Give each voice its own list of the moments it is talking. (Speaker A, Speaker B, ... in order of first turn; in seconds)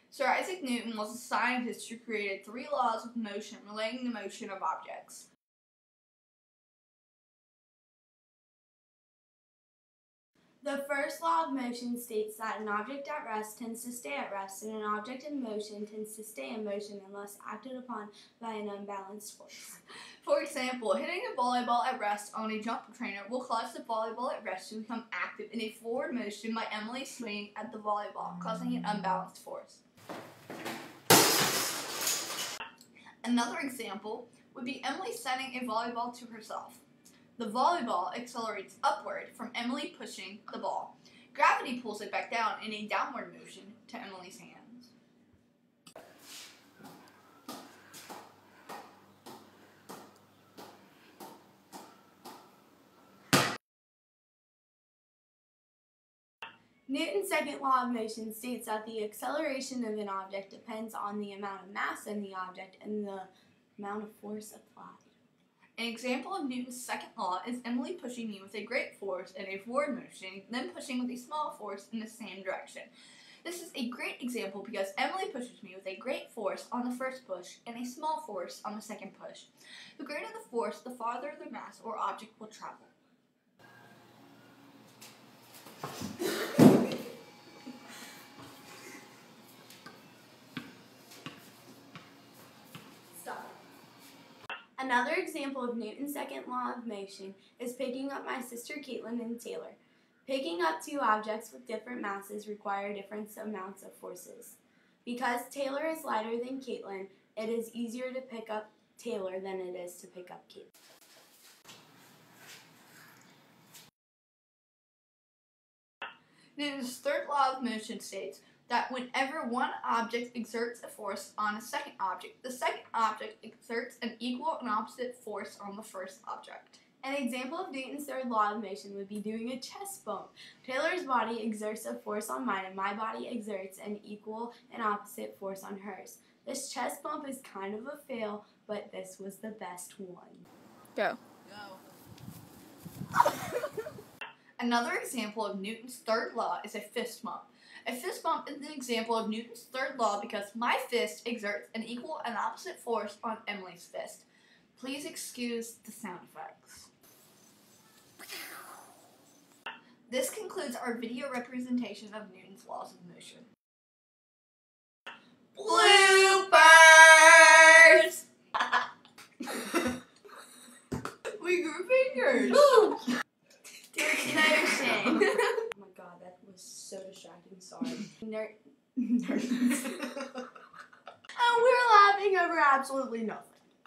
Speaker A: 0.1-5.3, 20.2-29.8, 33.2-36.8, 37.4-44.9, 65.8-72.9, 73.4-82.9, 116.6-126.8, 141.0-141.8, 144.6-156.9, 160.1-163.5, 165.6-168.2, 171.4-173.0
Speaker B: 10.6-19.8, 56.9-65.1, 94.8-110.7, 127.0-140.5, 172.5-173.0, 173.9-180.1, 181.4-183.7